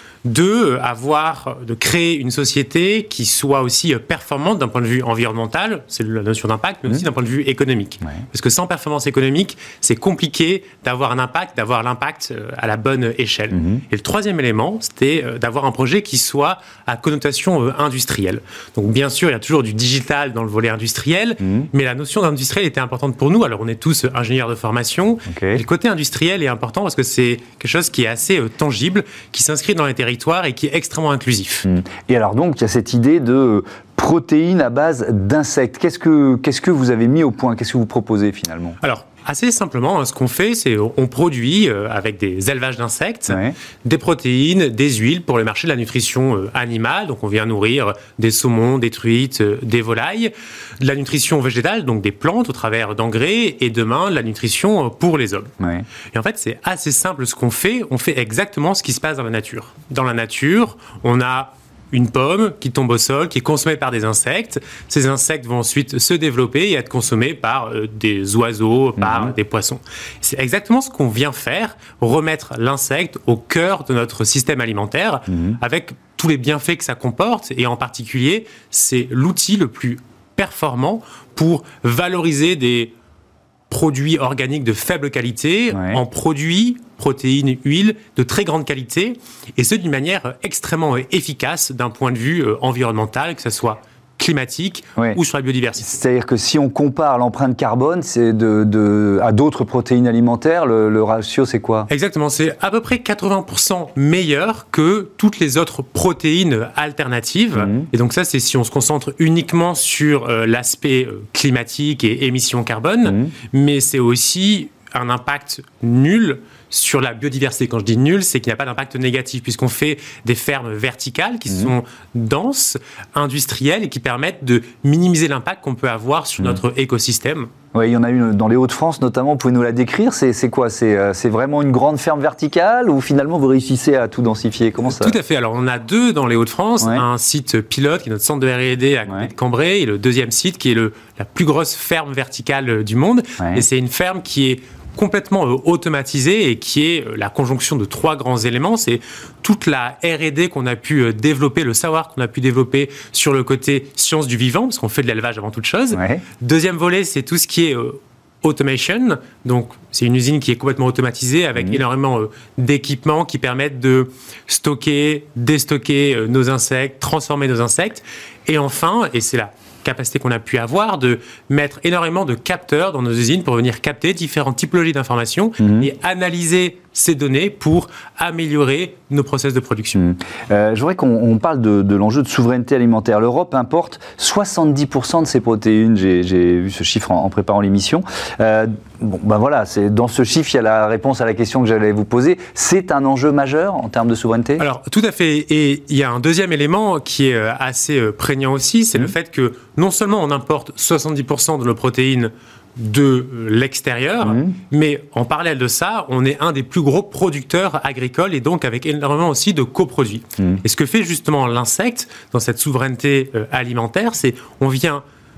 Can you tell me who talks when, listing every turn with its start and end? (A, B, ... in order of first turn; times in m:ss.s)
0:00.2-0:31.6 A
0:13.5-0:13.8 B
0:21.4-0:21.7 B
0:25.3-0:25.6 B
0:31.6-0:38.8 B
0:38.8-0:55.5 A
0:43.3-0:43.5 B
0:55.6-0:55.8 B
0:56.1-1:22.9 A
1:09.0-1:09.3 B
1:15.3-1:15.6 B
1:23.7-1:35.9 A
1:25.7-1:26.0 B
1:35.8-1:41.9 B
1:41.9-2:07.5 A
1:47.6-1:47.9 B
1:53.0-1:53.3 B
2:07.7-2:15.2 B
2:14.9-3:00.1 A
2:16.8-2:17.0 B
2:35.9-2:36.2 B
2:55.6-2:55.9 B
2:59.9-3:14.6 B
3:14.6-3:35.0 A
3:24.2-3:24.5 B